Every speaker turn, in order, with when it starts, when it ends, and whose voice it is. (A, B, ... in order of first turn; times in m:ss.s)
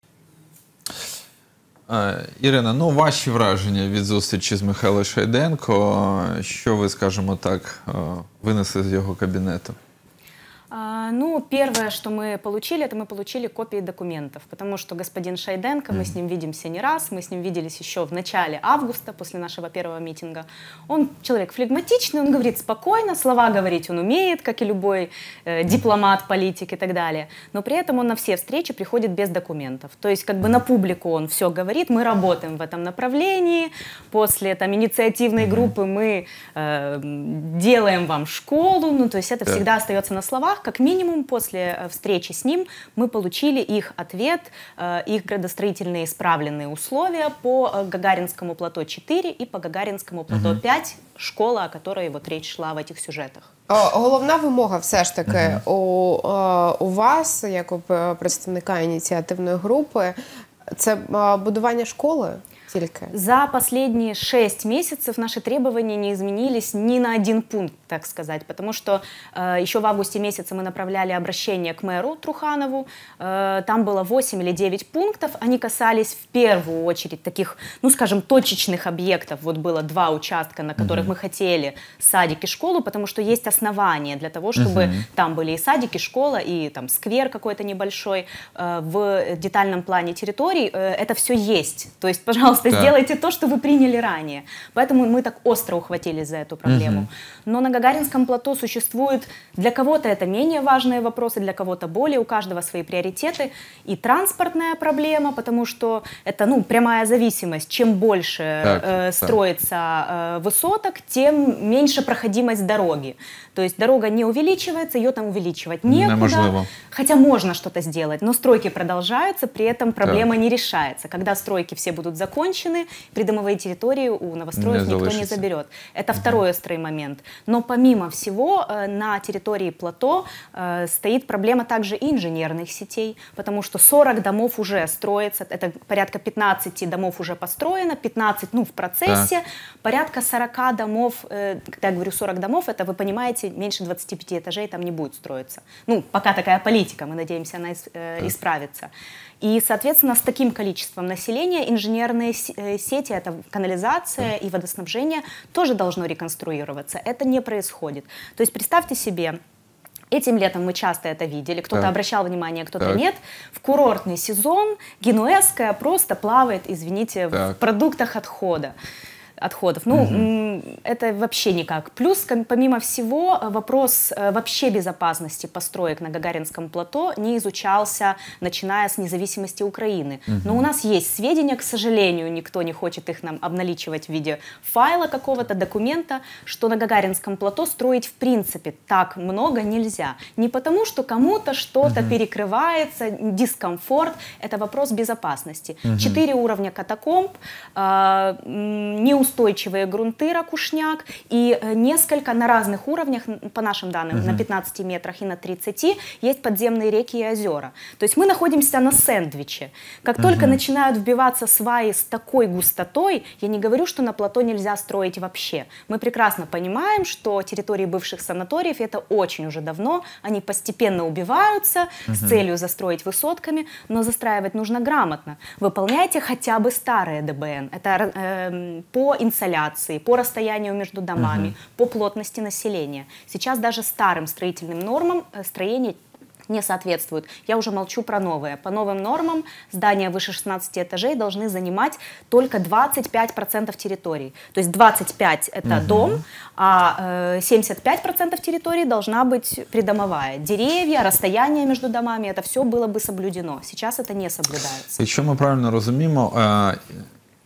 0:01.9-0:09.8 A
0:10.7-0:53.5 B
0:35.4-0:35.7 A
0:50.3-0:50.6 A
0:53.7-1:00.2 C
0:55.3-0:55.6 A
1:00.8-1:03.1 C
1:03.1-2:28.9 B
1:20.8-1:21.1 A
1:24.6-1:25.0 A
1:32.7-1:32.9 A
1:36.7-1:37.1 A
1:48.6-1:49.4 A
1:55.8-1:56.7 A
2:00.0-2:00.3 A
2:04.5-2:05.4 A
2:19.0-2:19.3 A
2:29.4-2:39.4 B
2:40.1-2:48.7 B
2:49.4-3:56.0 B
2:49.9-2:50.3 A
3:00.3-3:00.6 A
3:11.8-3:12.1 A
3:15.8-3:16.2 A
3:24.1-3:24.4 A
3:30.2-3:30.6 A
3:42.1-3:42.4 A
3:51.2-3:51.5 A
3:56.5-4:15.0 B
4:05.6-4:06.2 A
4:15.0-4:16.8 A